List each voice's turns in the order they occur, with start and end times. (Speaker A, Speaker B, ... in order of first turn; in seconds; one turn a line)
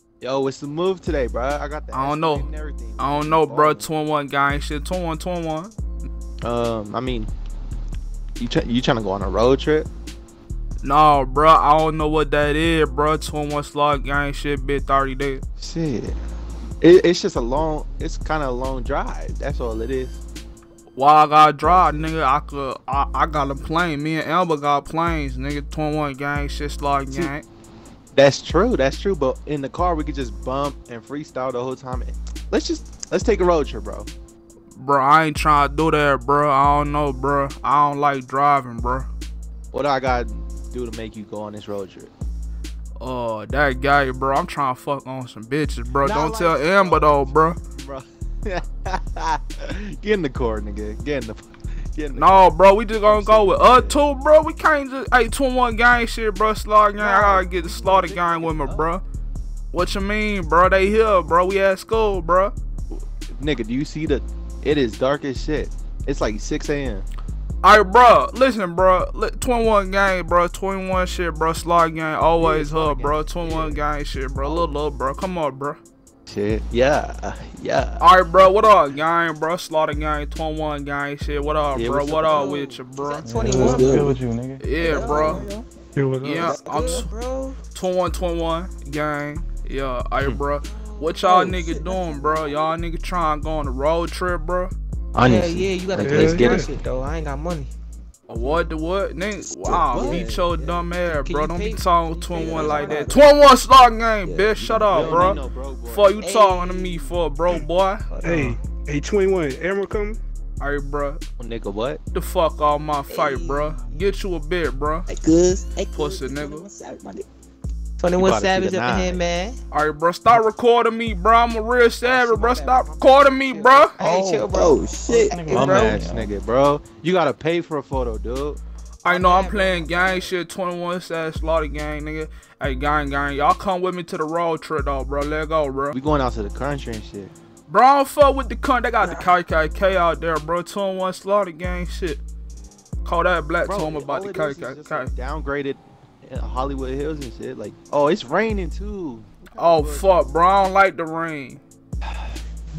Speaker A: 0.2-3.9
Speaker B: 1.9-2.5
Speaker B: 3.0-5.7
Speaker A: 6.4-7.3
Speaker A: 8.4-9.9
Speaker B: 10.8-15.4
Speaker A: 15.6-16.2
Speaker A: 16.8-20.2
Speaker B: 20.9-27.4
Speaker A: 21.6-22.1
Speaker A: 28.1-34.1
Speaker B: 34.8-39.1
Speaker A: 39.7-42.1
Speaker B: 43.0-47.6
Speaker A: 46.0-52.5
Speaker B: 52.2-59.0
Speaker A: 53.0-54.0
Speaker A: 57.0-58.9
Speaker B: 59.7-62.5
Speaker A: 63.4-67.1
Speaker B: 67.6-75.8
Speaker A: 72.4-73.8
Speaker A: 74.4-74.7
Speaker A: 76.3-78.0
Speaker B: 78.0-83.3
Speaker A: 81.7-82.7
Speaker C: 82.2-84.2
Speaker D: 83.2-84.7
Speaker E: 83.7-84.1
Speaker B: 84.6-85.5
Speaker C: 84.8-85.6
Speaker E: 84.9-85.6
Speaker F: 86.0-86.5
Speaker B: 86.2-87.1
Speaker C: 86.4-87.6
Speaker E: 86.5-87.0
Speaker B: 87.7-94.7
Speaker C: 90.8-92.7
Speaker A: 95.2-96.7
Speaker C: 95.2-97.7
Speaker F: 96.0-96.7
Speaker B: 98.3-108.1
Speaker E: 99.5-100.8
Speaker C: 101.0-103.2
Speaker E: 102.3-103.2
Speaker E: 104.2-105.4
Speaker A: 104.9-106.2
Speaker C: 106.2-107.2
Speaker C: 108.1-108.6
Speaker F: 108.2-110.2
Speaker B: 110.6-111.2
Speaker A: 111.4-112.0
Speaker B: 112.1-115.1
Speaker C: 113.1-114.0
Speaker E: 115.1-117.2
Speaker B: 115.9-116.7
Speaker C: 118.0-119.6
Speaker A: 118.2-119.2
Speaker B: 119.7-124.0
Speaker C: 122.0-126.0
Speaker D: 124.0-124.4
Speaker E: 124.4-125.4
Speaker D: 125.1-126.3
Speaker A: 125.5-128.6
Speaker B: 129.0-135.9
Speaker C: 129.1-130.3
Speaker A: 135.9-137.3
Speaker B: 137.7-142.2
Speaker C: 139.0-139.3
Speaker B: 143.1-145.1
Speaker A: 143.6-150.2
Speaker B: 149.6-151.6